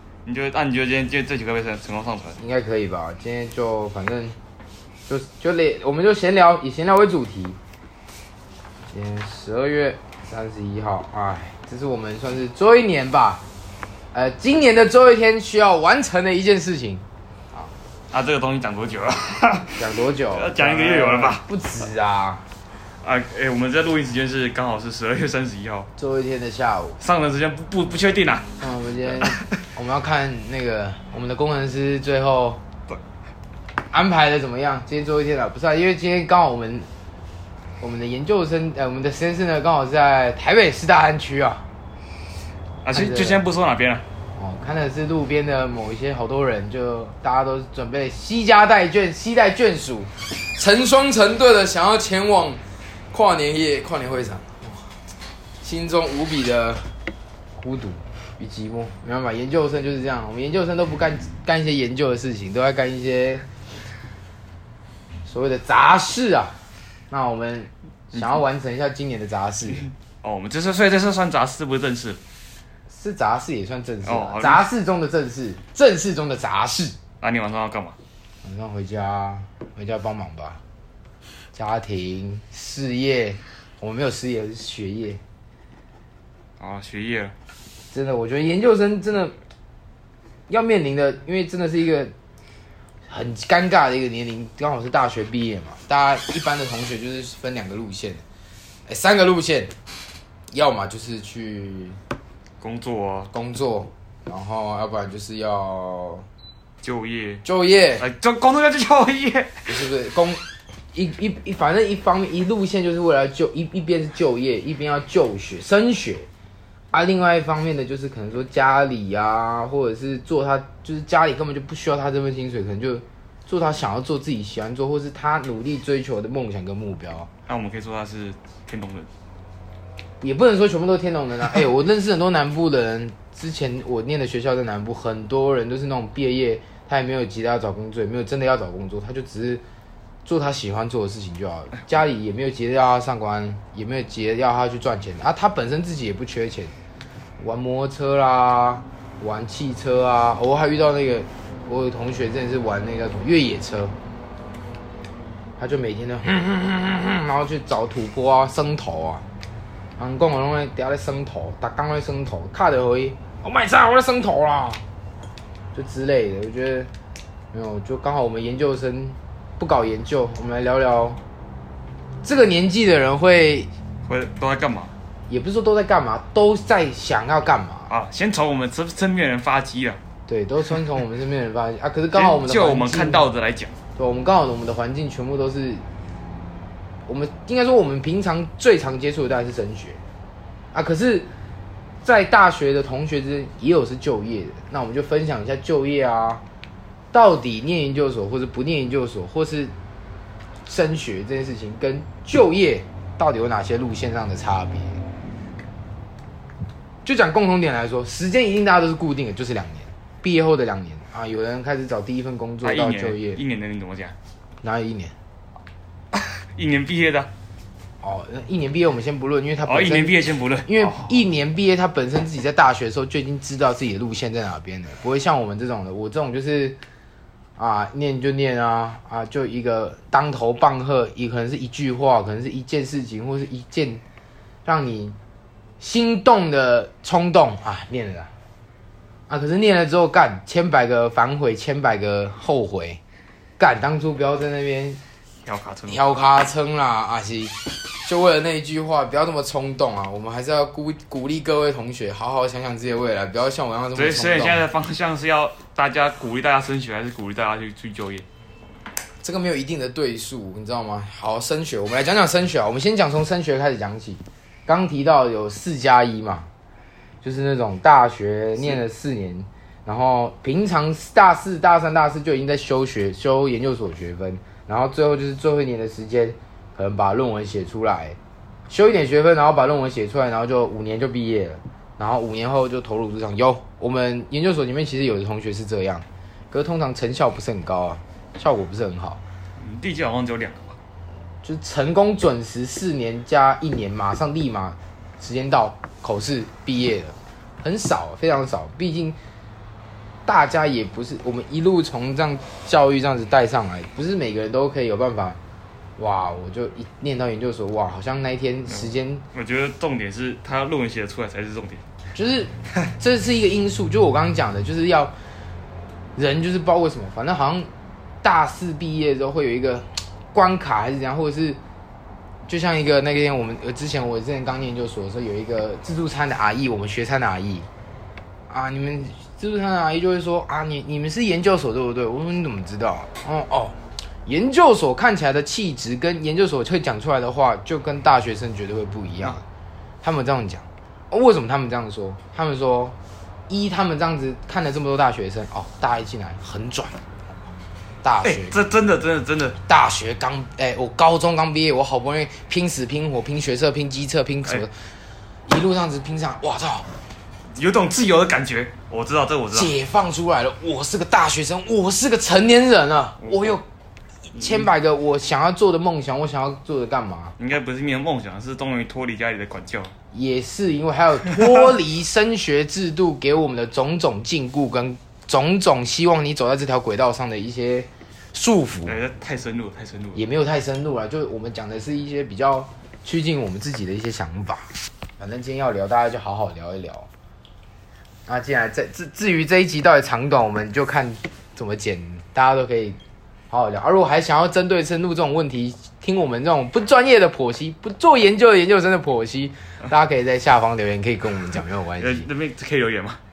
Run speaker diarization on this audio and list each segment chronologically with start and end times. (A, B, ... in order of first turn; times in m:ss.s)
0:00.2-0:02.4 A
0:02.4-0:04.4 B
0:05.1-0:07.6 B
0:08.9-0:13.4 B
0:14.1-0:17.7 B
0:18.1-0:21.4 A
0:19.8-0:22.4 B
0:23.0-0:25.9 A
0:26.0-0:27.0 B
0:27.0-0:28.5 A
0:28.6-0:32.6 B
0:33.9-0:36.9 B
0:37.8-0:41.6 B
0:42.8-0:44.0 A
0:42.9-0:43.4 B
0:44.4-0:52.6 B
0:53.1-0:54.8 B
0:55.6-0:56.9 B
0:57.6-1:03.4 B
1:05.2-1:06.6 B
1:07.1-1:09.9 B
1:09.8-1:12.2 A
1:12.9-1:17.0 B
1:14.0-1:14.6 A
1:17.2-1:18.0 A
1:18.4-1:20.6 B
1:21.5-1:25.2 B
1:26.6-1:27.3 A
1:27.9-1:29.3 B
1:30.5-1:32.1 B
1:33.1-1:38.2 B
1:38.9-1:39.7 B
1:40.5-1:42.0 B
1:42.6-1:43.3 A
1:43.3-1:46.2 B
1:46.8-1:47.4 A
1:47.4-1:48.0 B
1:48.0-1:49.7 A
1:49.7-1:50.4 B
1:50.9-1:56.3 B
1:56.9-2:07.3 B
2:07.5-2:09.1 A
2:10.2-2:19.6 B
2:20.2-2:26.7 B
2:27.4-2:33.9 B
2:35.6-2:39.2 B
2:40.0-2:44.8 B
2:45.7-2:46.9 B
2:47.5-2:51.2 B
2:52.2-2:53.7 B
2:54.0-2:54.9 A
2:55.3-2:57.9 B
2:57.9-3:00.0 A
3:00.3-3:03.3 B
3:02.1-3:03.7 A
3:04.0-3:05.8 B
3:07.0-3:10.0 B
3:10.7-3:11.3 B
3:12.0-3:16.4 B
3:17.1-3:19.7 B
3:20.6-3:25.0 B
3:27.0-3:33.4 B
3:32.6-3:34.1 A
3:34.6-3:35.1 B
3:36.1-3:37.3 A
3:38.0-3:46.8 B
3:39.6-3:41.1 A
3:47.6-3:54.0 B
3:54.6-3:55.2 B
3:55.8-3:58.3 B
3:59.3-4:03.0 B
4:03.6-4:05.0 B
4:05.4-4:06.0 A
4:05.9-4:14.6 B
4:13.9-4:18.2 A
4:19.2-4:26.5 B
4:27.2-4:38.2 B
4:38.7-4:49.2 B
4:49.6-4:50.8 A
4:51.4-4:59.2 B
5:00.2-5:05.4 B
5:06.0-5:09.2 B
5:08.7-5:11.8 A
5:12.1-5:15.1 B
5:16.2-5:17.7 B
5:18.2-5:21.6 B
5:22.5-5:27.7 B
5:28.5-5:39.4 B
5:40.0-5:42.9 B
5:43.5-5:47.0 B
5:48.0-5:48.6 B
5:48.2-5:49.6 A
5:49.7-5:54.9 B
5:55.5-5:57.0 B
5:57.6-5:59.7 A
5:59.5-6:03.6 B
6:03.2-6:03.6 A
6:04.3-6:07.3 B
6:07.4-6:09.9 A
6:10.1-6:19.0 B
6:18.8-6:20.2 A
6:20.1-6:24.7 B
6:25.2-6:27.1 B
6:28.2-6:33.0 B
6:33.5-6:42.3 B
6:42.0-6:43.2 A